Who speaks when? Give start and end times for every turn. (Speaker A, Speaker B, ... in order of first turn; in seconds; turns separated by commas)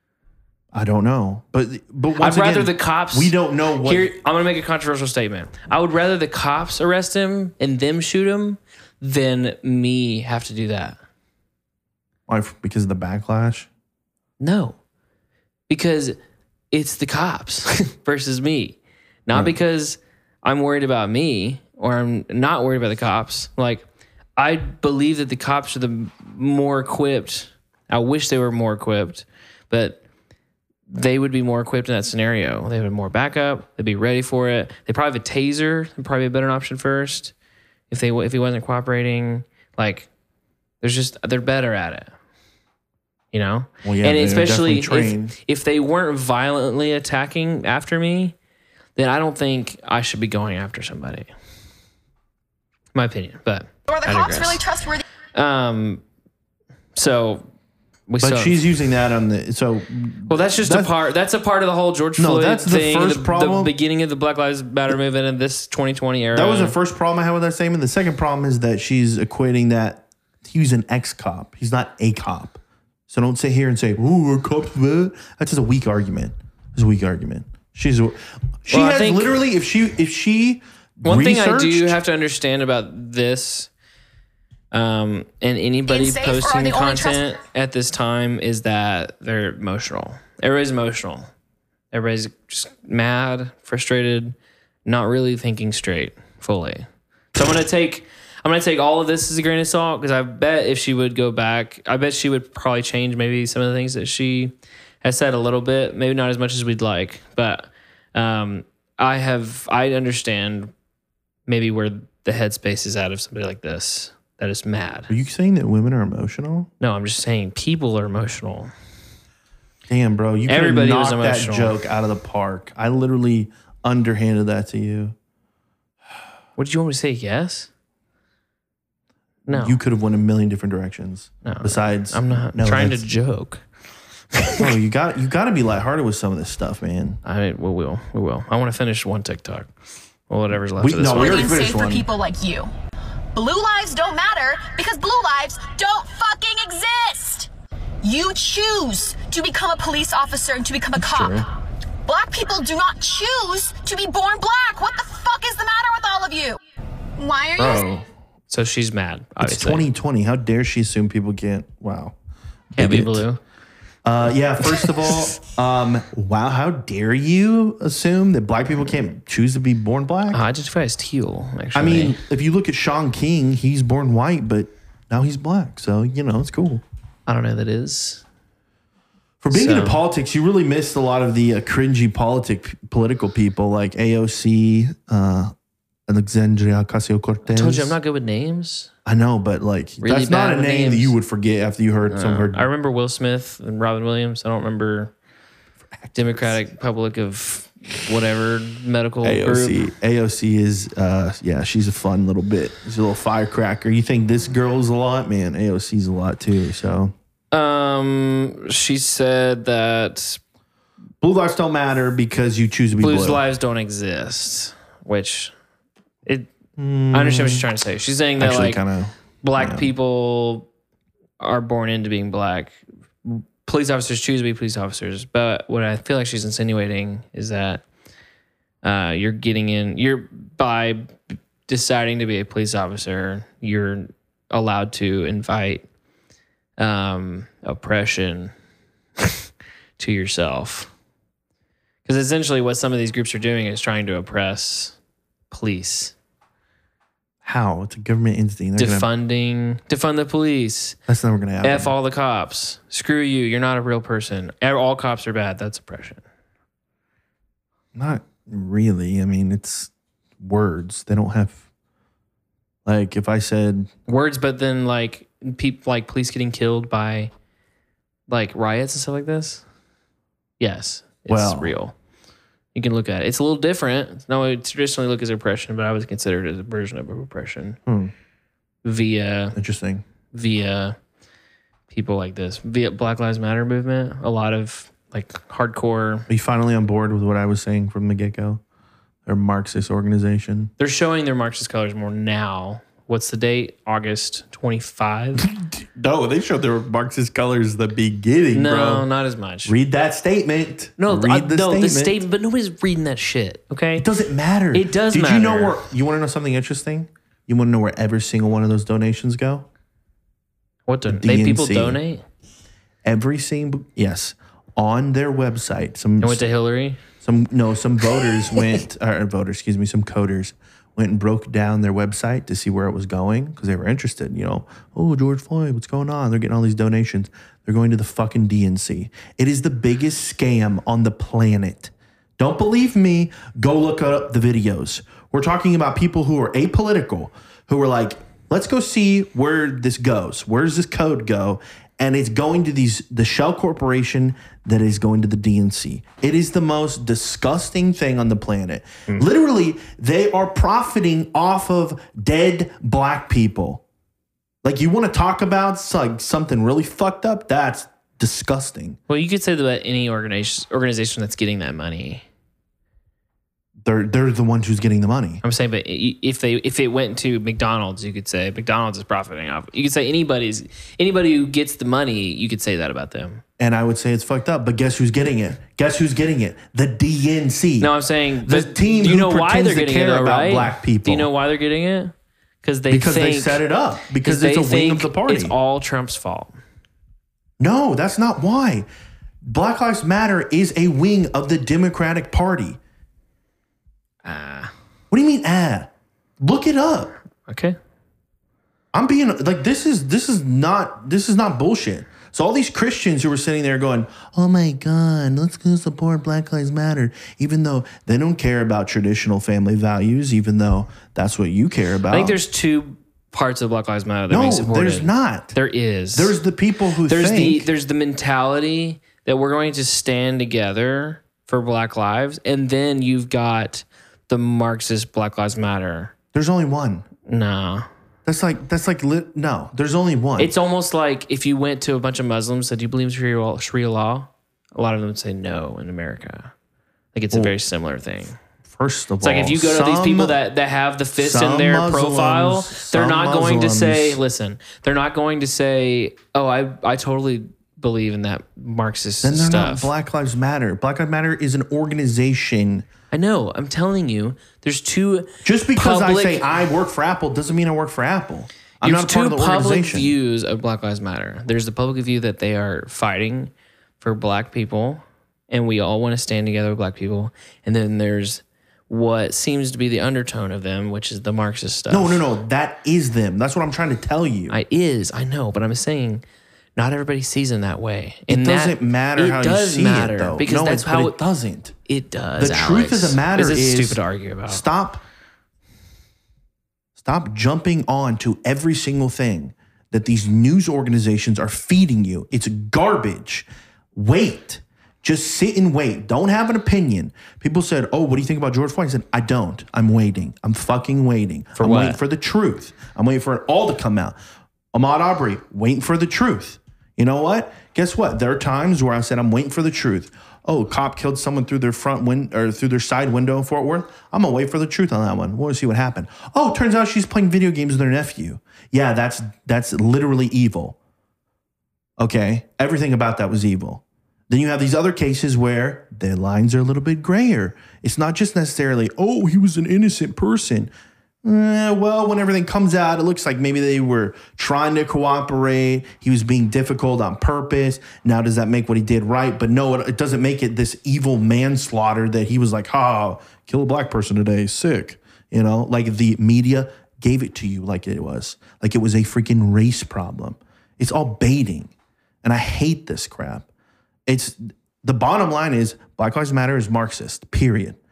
Speaker A: 0.7-4.1, Speaker B: 2.2-11.0, Speaker A: 12.3-13.7, Speaker B: 14.4-14.8, Speaker B: 15.7-16.2, Speaker B: 16.7-23.8, Speaker B: 24.4-30.0, Speaker B: 30.9-37.3, Speaker B: 37.9-40.1, Speaker B: 40.8-42.1, Speaker B: 43.3-48.3, Speaker A: 43.8-45.3, Speaker B: 49.0-51.3, Speaker B: 52.9-54.6, Speaker C: 53.9-55.0, Speaker B: 55.3-56.0, Speaker B: 56.9-57.5, Speaker B: 58.1-58.6, Speaker A: 58.2-60.9, Speaker B: 60.3-66.8, Speaker A: 62.2-63.7, Speaker A: 66.3-82.0, Speaker B: 78.7-79.4, Speaker B: 81.0-83.7, Speaker B: 84.7-91.3, Speaker C: 85.9-87.3, Speaker B: 91.9-94.3, Speaker B: 94.8-110.7, Speaker B: 111.5-115.1, Speaker A: 115.1-116.7, Speaker B: 116.8-118.7, Speaker A: 119.9-125.2, Speaker B: 120.5-121.8, Speaker B: 126.6-127.7, Speaker B: 129.5-129.8, Speaker A: 129.5-133.0, Speaker B: 131.4-133.6, Speaker B: 134.3-134.7, Speaker A: 134.6-137.2, Speaker B: 137.2-139.7, Speaker B: 140.3-141.5, Speaker A: 140.8-142.1, Speaker C: 141.1-142.7, Speaker C: 143.3-147.5, Speaker C: 148.0-151.4, Speaker A: 150.9-151.4, Speaker C: 152.1-156.6, Speaker C: 157.2-157.9, Speaker A: 157.6-158.0, Speaker B: 158.5-159.9, Speaker A: 159.4-162.1, Speaker A: 162.7-163.2, Speaker B: 162.7-163.4, Speaker A: 164.0-170.4, Speaker B: 170.3-172.2, Speaker A: 171.7-176.8, Speaker B: 177.3-178.2, Speaker A: 179.4-185.5, Speaker B: 179.5-180.0, Speaker A: 186.1-188.0, Speaker B: 187.5-188.9, Speaker A: 189.1-192.7, Speaker B: 190.0-191.1, Speaker B: 192.1-195.1, Speaker A: 196.0-196.5, Speaker B: 196.1-199.8, Speaker A: 199.2-207.1, Speaker B: 207.5-210.4, Speaker A: 211.2-213.4, Speaker B: 213.0-215.5, Speaker B: 216.2-216.5, Speaker A: 216.8-217.6, Speaker B: 217.1-218.8, Speaker A: 218.4-219.9, Speaker B: 219.4-220.7, Speaker B: 221.4-227.8, Speaker B: 228.8-235.8, Speaker B: 236.8-238.5, Speaker B: 239.2-239.4, Speaker B: 240.0-240.9, Speaker B: 242.0-244.9, Speaker B: 245.5-246.1, Speaker A: 247.4-249.1, Speaker B: 248.8-251.0, Speaker A: 251.1-251.9, Speaker B: 251.6-256.2, Speaker A: 257.9-261.6, Speaker A: 262.8-263.9, Speaker B: 264.1-267.3, Speaker B: 268.3-269.6, Speaker B: 270.6-271.9, Speaker A: 271.3-271.7, Speaker B: 272.7-277.8, Speaker A: 277.9-278.1, Speaker B: 278.8-279.6, Speaker A: 279.5-280.0, Speaker B: 280.3-280.9, Speaker B: 281.9-286.3, Speaker A: 286.3-288.6, Speaker A: 289.2-290.7, Speaker B: 290.8-295.4, Speaker A: 295.4-299.1, Speaker B: 298.5-299.7, Speaker A: 299.6-302.2, Speaker B: 301.0-304.1, Speaker A: 303.9-309.6, Speaker B: 304.7-305.8, Speaker B: 310.9-312.2, Speaker A: 311.1-312.0, Speaker A: 313.0-316.4, Speaker B: 316.2-317.0, Speaker A: 317.2-353.8, Speaker A: 354.6-359.0, Speaker B: 359.1-362.2, Speaker A: 363.8-365.4, Speaker B: 365.4-373.4, Speaker A: 373.6-381.3, Speaker B: 377.8-383.6, Speaker A: 382.9-385.5, Speaker B: 384.2-386.5, Speaker A: 387.6-388.9, Speaker A: 389.4-392.8, Speaker B: 394.2-394.7, Speaker A: 395.1-397.1, Speaker B: 397.5-397.8, Speaker A: 398.9-412.4, Speaker B: 412.1-416.4, Speaker A: 414.3-415.6, Speaker A: 416.1-417.7, Speaker B: 417.1-426.1, Speaker A: 426.3-427.1, Speaker B: 427.3-427.9, Speaker A: 428.2-430.5, Speaker B: 430.4-436.5, Speaker B: 437.1-438.4, Speaker A: 438.6-440.4, Speaker B: 439.2-449.9, Speaker A: 441.2-444.2, Speaker A: 449.2-452.9, Speaker B: 453.1-456.6, Speaker A: 455.4-460.1, Speaker B: 458.8-472.2, Speaker A: 471.9-474.6, Speaker B: 474.5-476.2, Speaker B: 476.8-481.2, Speaker A: 478.3-481.7, Speaker B: 481.9-484.6, Speaker A: 482.4-485.0, Speaker A: 486.9-504.1, Speaker B: 501.6-502.0, Speaker A: 504.7-520.8, Speaker A: 522.0-530.7, Speaker A: 531.2-551.7, Speaker A: 552.2-553.5, Speaker A: 554.0-557.8